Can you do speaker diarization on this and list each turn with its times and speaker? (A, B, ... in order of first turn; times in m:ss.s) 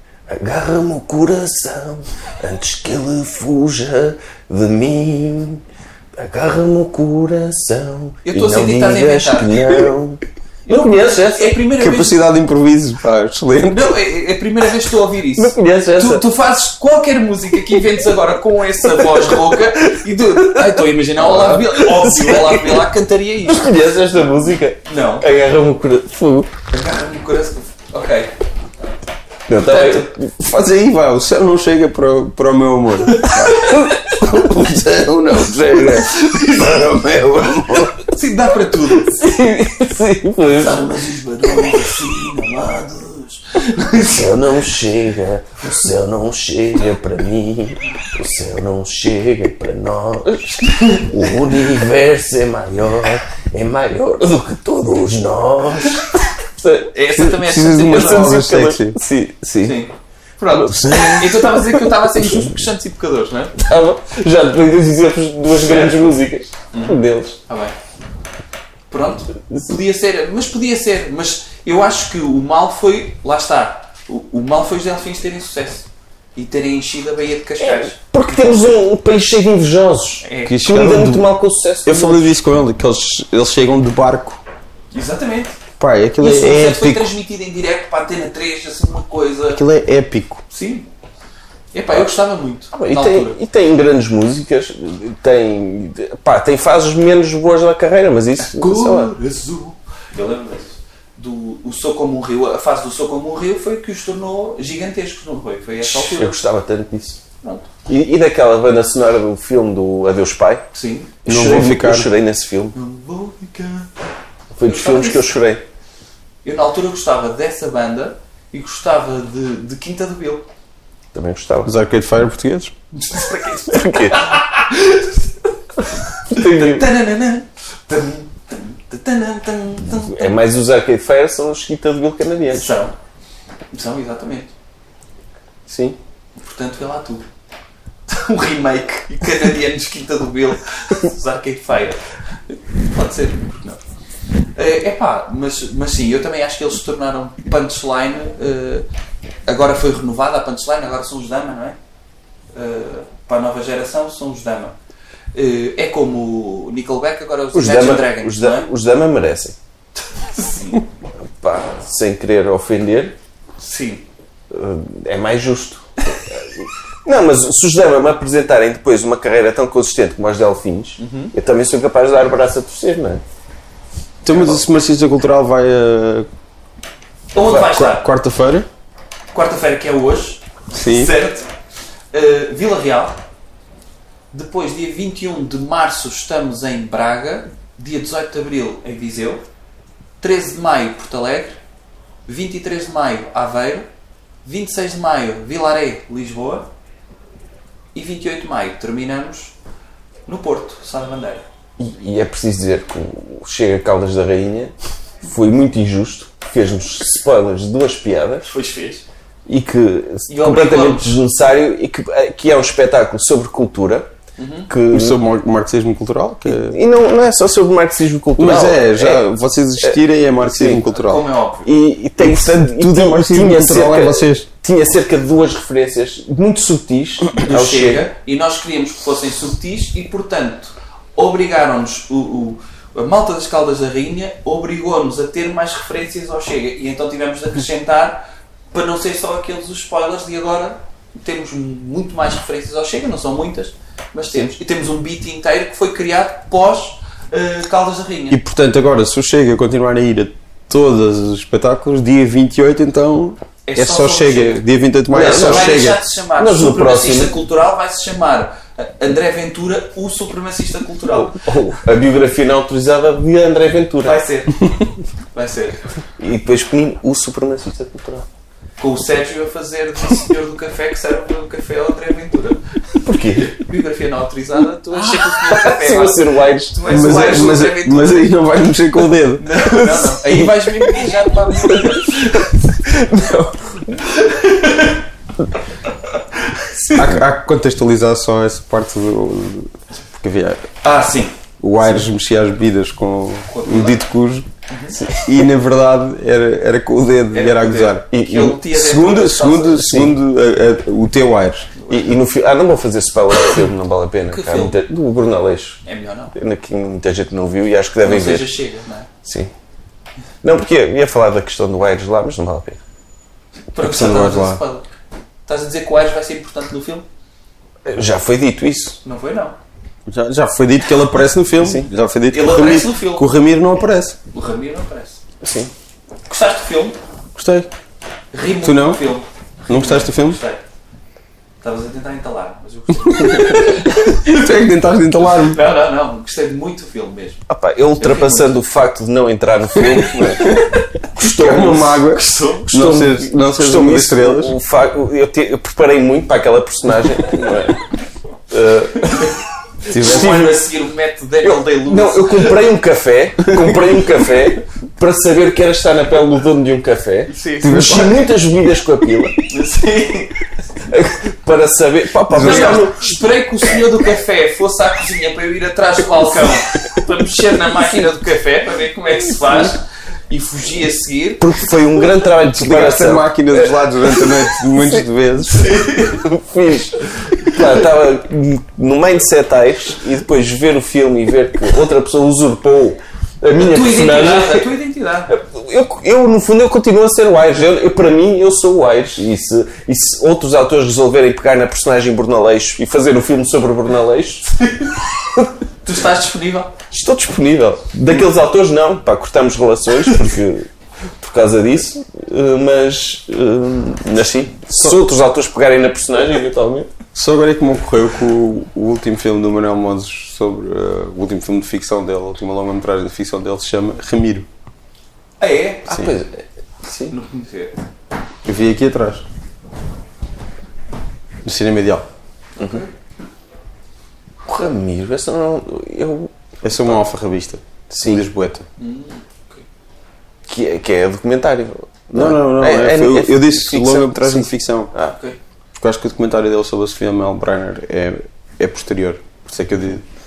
0:00.3-0:05.6 A
0:06.2-0:11.6 A
0:08.2-0:09.9 B
0:10.7-0:12.2 B
0:11.8-0:14.0 C
0:13.7-0:23.7 B
0:15.4-0:16.2 A
0:19.0-0:19.4 A
0:20.4-0:22.9 A
0:23.5-0:26.5 A
0:24.8-0:25.2 B
0:26.7-0:28.3 B
0:29.5-0:30.4 A
0:29.6-0:30.1 B
0:30.4-0:37.9 C
0:33.0-0:34.0 B
0:33.5-0:34.5 A
0:35.7-0:36.0 A
0:36.0-0:36.7 B
0:37.9-0:39.2 B
0:39.1-0:42.2 A
0:40.5-0:44.5 B
0:43.9-0:57.2 A
0:50.7-0:51.1 B
0:56.9-0:58.5 B
0:57.2-0:59.0 C
0:57.8-0:59.8 A
0:59.6-1:03.6 B
1:00.5-1:02.6 A
1:03.6-1:07.4 A
1:05.5-1:06.1 B
1:06.7-1:07.7 B
1:08.9-1:18.7 B
1:17.6-1:22.3 A
1:20.2-1:20.6 B
1:20.4-1:21.3 C
1:21.8-1:24.4 C
1:24.9-1:25.6 B
1:25.8-1:27.1 C
1:26.2-1:29.6 B
1:29.5-1:30.4 C
1:30.5-1:30.9 B
1:31.7-1:33.4 B
1:32.7-1:39.1 A
1:38.4-1:46.4 B
1:45.8-1:47.2 A
1:47.4-1:47.7 B
1:47.9-1:50.6 A
1:50.7-1:51.2 B
1:51.2-1:52.8 A
1:51.3-1:52.1 C
1:52.7-1:53.9 B
1:54.5-1:55.6 A
1:54.6-1:55.3 B
1:56.4-2:00.4 B
2:01.1-2:01.7 A
2:01.6-2:02.7 C
2:02.9-2:10.3 B
2:03.7-2:04.4 A
2:06.3-2:06.9 A
2:09.9-2:12.7 A
2:12.5-2:12.9 B
2:13.7-2:14.5 B
2:15.7-2:16.0 A
2:16.4-2:17.3 B
2:18.1-2:22.0 B
2:22.8-2:23.8 B
2:24.6-2:28.8 B
2:29.5-2:31.8 B
2:32.5-2:34.8 B
2:35.3-2:38.7 B
2:37.5-2:39.6 A
2:40.1-2:40.8 B
2:41.4-2:43.2 A
2:43.6-2:44.0 B
2:44.5-2:53.2 A
2:51.0-2:51.3 B
2:54.2-2:56.3 C
2:54.3-2:54.6 A
2:57.3-2:58.0 B
2:57.5-2:58.7 C
2:59.3-3:01.5 B
3:00.7-3:01.1 C
3:02.1-3:03.2 B
3:04.3-3:09.4 B
3:10.2-3:11.6 B
3:12.3-3:13.8 B
3:14.4-3:16.7 B
3:17.9-3:19.5 B
3:20.3-3:21.4 B
3:21.8-3:24.7 A
3:25.2-3:28.5 A
3:28.5-3:29.0 B
3:29.5-3:34.1 A
3:30.3-3:31.2 B
3:34.4-3:34.7 B
3:34.7-3:35.2 A
3:34.9-3:36.8 C
3:36.4-3:39.2 A
3:38.4-3:41.2 C
3:39.8-3:40.8 A
3:40.8-3:41.7 B
3:41.6-3:48.1 A
3:42.2-3:44.5 C
3:47.4-4:08.4 B
4:08.3-4:16.0 C
4:13.6-4:21.3 B
4:15.1-4:17.4 A
4:21.1-4:24.2 A
4:24.0-4:24.7 B
4:25.3-4:25.8 B
4:26.2-4:28.3 A
4:28.8-4:32.6 B
4:33.0-4:33.6 A
4:33.4-4:38.3 B
4:34.9-4:37.6 A
4:36.8-4:40.3 C
4:39.4-4:42.5 B
4:41.7-4:44.2 A
4:44.1-4:45.0 B
4:46.5-4:47.0 B
4:46.9-4:50.7 C
4:50.8-4:51.4 B
4:51.6-4:54.5 C
4:53.5-4:54.0 B
4:54.7-4:55.0 B
4:54.9-4:55.4 A
4:55.2-4:58.1 C
4:57.3-5:00.1 B
4:58.1-4:58.7 A
4:58.7-5:01.7 C
4:59.8-5:00.1 A
5:01.8-5:02.1 B
5:01.9-5:05.8 A
5:04.3-5:04.8 B
5:05.8-5:06.3 B
5:06.3-5:08.5 A
5:08.0-5:09.1 B
5:09.2-5:09.5 A
5:10.4-5:12.8 A
5:13.7-5:14.8 B
5:13.8-5:14.6 C
5:15.5-5:17.0 B
5:17.8-5:19.0 A
5:19.0-5:19.6 B
5:20.1-5:24.2 C
5:21.6-5:21.9 A
5:22.3-5:23.3 B
5:24.3-5:25.2 B
5:25.4-5:25.7 A
5:26.3-5:27.0 B
5:27.3-5:27.7 C
5:28.3-5:30.6 B
5:28.6-5:29.0 C
5:29.7-5:30.4 C
5:31.6-5:34.4 B
5:33.1-5:35.6 C
5:35.4-5:37.4 B
5:37.5-5:42.1 A
5:38.0-5:38.5 B
5:40.0-5:40.6 C
5:41.2-5:44.5 C
5:42.0-5:42.7 B
5:42.7-5:47.8 A
5:48.5-5:49.4 A
5:49.9-5:52.6 B
5:49.9-5:50.5 C
5:49.9-5:50.6 A
5:51.4-5:59.4 A
5:57.3-5:58.1 B
5:57.6-5:58.3 C
5:59.5-6:00.4 B
6:00.9-6:03.4 A
6:02.3-6:02.8 C
6:02.3-6:11.5 B
6:11.4-6:13.3 A
6:12.5-6:15.8 C
6:14.8-6:15.0 A
6:15.6-6:24.7 A
6:15.6-6:16.2 B
6:23.6-6:25.3 B
6:25.3-6:34.5 A
6:34.6-6:35.0 B
6:35.8-6:36.7 B
6:36.9-6:40.7 A
6:41.2-6:46.9 A
6:47.1-6:54.5 C
6:55.4-6:56.1 B
6:55.9-6:57.2 A
6:57.1-6:57.7 B
6:58.4-6:59.2 C
7:01.4-7:02.0 C
7:02.6-7:02.8 A
7:02.6-7:02.9 B
7:04.4-7:06.3 A
7:06.6-7:08.6 C
7:07.9-7:08.2 A
7:08.8-7:09.6 B
7:10.5-7:15.1 A
7:12.1-7:14.9 C
7:15.1-7:15.4 B
7:15.8-7:20.0 C